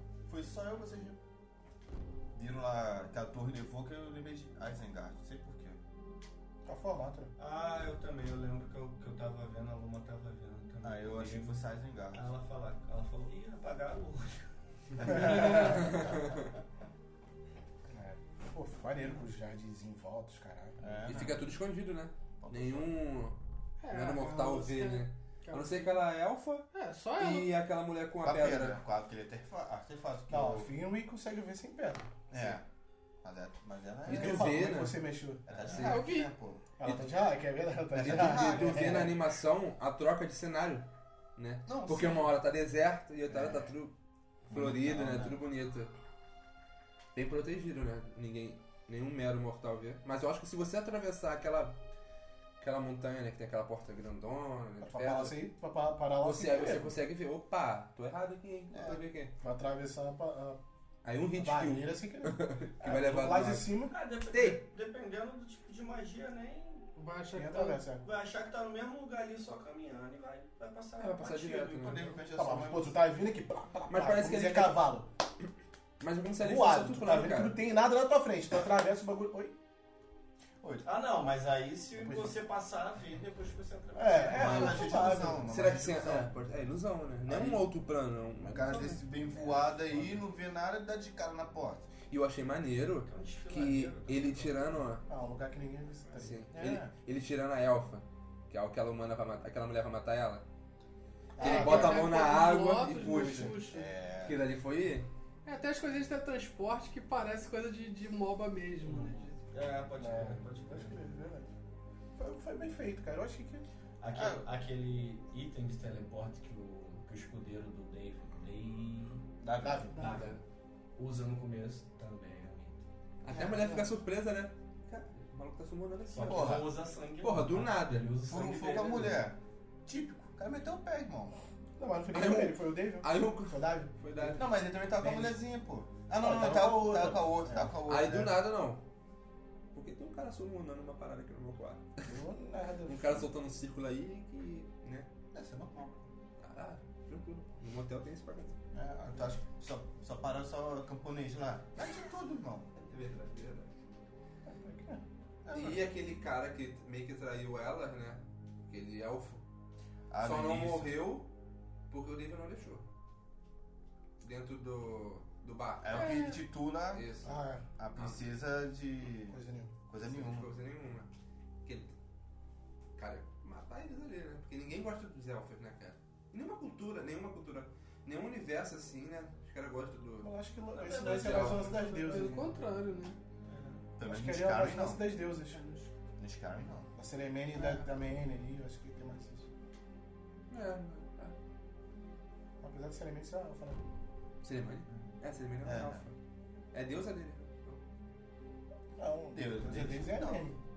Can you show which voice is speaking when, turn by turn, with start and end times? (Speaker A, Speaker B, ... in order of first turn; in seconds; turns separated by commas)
Speaker A: 0.2-1.2, Speaker A: 2.3-5.8, Speaker B: 6.6-7.3, Speaker C: 7.4-11.6, Speaker A: 10.8-12.3, Speaker C: 12.1-16.4, Speaker A: 15.0-15.9, Speaker D: 15.1-16.5, Speaker B: 17.9-20.9, Speaker A: 20.8-21.5, Speaker D: 21.1-23.4, Speaker A: 22.4-22.9, Speaker E: 23.8-26.0, Speaker D: 23.9-28.8, Speaker E: 26.7-27.5, Speaker A: 28.2-30.7, Speaker B: 30.3-32.1, Speaker A: 32.3-32.6, Speaker A: 33.2-34.6, Speaker D: 34.0-35.0, Speaker B: 34.1-35.4, Speaker A: 35.5-37.0, Speaker C: 35.5-35.9, Speaker E: 35.7-36.3, Speaker B: 36.8-39.1, Speaker D: 37.9-43.9, Speaker A: 37.9-39.2, Speaker A: 41.6-42.4, Speaker A: 43.3-43.8, Speaker A: 44.5-45.4, Speaker D: 44.5-45.9, Speaker D: 47.1-51.8, Speaker D: 52.6-55.4, Speaker B: 54.8-57.0, Speaker D: 56.2-59.3, Speaker A: 58.7-59.0, Speaker B: 59.4-60.6, Speaker D: 61.0-63.7, Speaker B: 61.3-63.9, Speaker C: 63.9-66.8, Speaker D: 64.3-64.6, Speaker E: 67.0-67.8, Speaker B: 67.3-68.0, Speaker C: 68.0-72.2, Speaker D: 71.0-72.1, Speaker A: 71.8-73.0, Speaker B: 72.3-75.1, Speaker D: 73.9-74.8, Speaker D: 76.0-77.6, Speaker B: 76.4-79.5, Speaker A: 80.6-80.9, Speaker C: 80.8-85.1, Speaker B: 81.9-82.3, Speaker B: 83.9-85.5, Speaker A: 84.3-86.3, Speaker D: 85.4-89.0, Speaker A: 87.2-87.7, Speaker A: 88.4-91.9, Speaker C: 89.2-90.2, Speaker D: 92.1-95.0, Speaker C: 93.0-94.8, Speaker B: 95.1-96.5, Speaker D: 96.2-100.4, Speaker A: 96.5-96.9, Speaker B: 101.4-102.1, Speaker A: 101.4-102.0, Speaker D: 101.4-103.6, Speaker E: 101.4-103.8, Speaker A: 103.2-104.4, Speaker D: 104.2-105.1, Speaker E: 105.4-109.3, Speaker C: 108.8-111.1, Speaker B: 110.0-111.5, Speaker B: 112.1-113.7, Speaker C: 114.0-119.3, Speaker A: 114.1-114.5, Speaker A: 119.4-120.0, Speaker B: 119.6-120.0, Speaker C: 119.9-120.4, Speaker E: 120.0-120.2, Speaker C: 121.0-122.8, Speaker D: 123.2-126.6, Speaker A: 123.3-123.9, Speaker C: 126.1-129.3, Speaker A: 126.2-126.7, Speaker D: 127.2-128.2, Speaker A: 128.2-131.4, Speaker B: 131.8-135.4, Speaker D: 132.1-134.5, Speaker A: 134.3-138.4, Speaker B: 136.1-137.8, Speaker D: 137.9-138.8, Speaker D: 139.7-142.1, Speaker B: 142.1-143.3, Speaker D: 142.9-145.1, Speaker A: 145.3-146.0, Speaker D: 146.4-148.6, Speaker A: 148.7-152.7, Speaker D: 152.8-153.7, Speaker B: 154.4-155.0, Speaker A: 155.4-155.9, Speaker D: 155.5-159.4, Speaker A: 160.1-161.1, Speaker D: 160.2-161.3, Speaker D: 161.9-162.8, Speaker D: 164.2-166.3, Speaker A: 165.8-167.2, Speaker E: 166.0-166.4, Speaker D: 166.9-167.3, Speaker B: 167.2-167.6, Speaker A: 167.8-170.5, Speaker D: 167.9-168.2, Speaker B: 169.3-169.7, Speaker D: 170.0-171.1, Speaker D: 171.6-171.9, Speaker D: 172.9-180.3, Speaker B: 180.2-182.4, Speaker C: 180.8-181.8, Speaker D: 180.9-182.4, Speaker E: 181.6-183.2, Speaker C: 183.5-183.8, Speaker A: 184.0-185.1, Speaker B: 184.0-185.6, Speaker E: 185.5-185.9, Speaker A: 186.2-186.9, Speaker B: 186.9-189.5, Speaker D: 190.5-191.3, Speaker B: 192.6-193.8, Speaker D: 194.4-196.1, Speaker A: 195.6-196.0, Speaker D: 196.7-197.8, Speaker B: 198.9-200.6, Speaker A: 199.3-200.5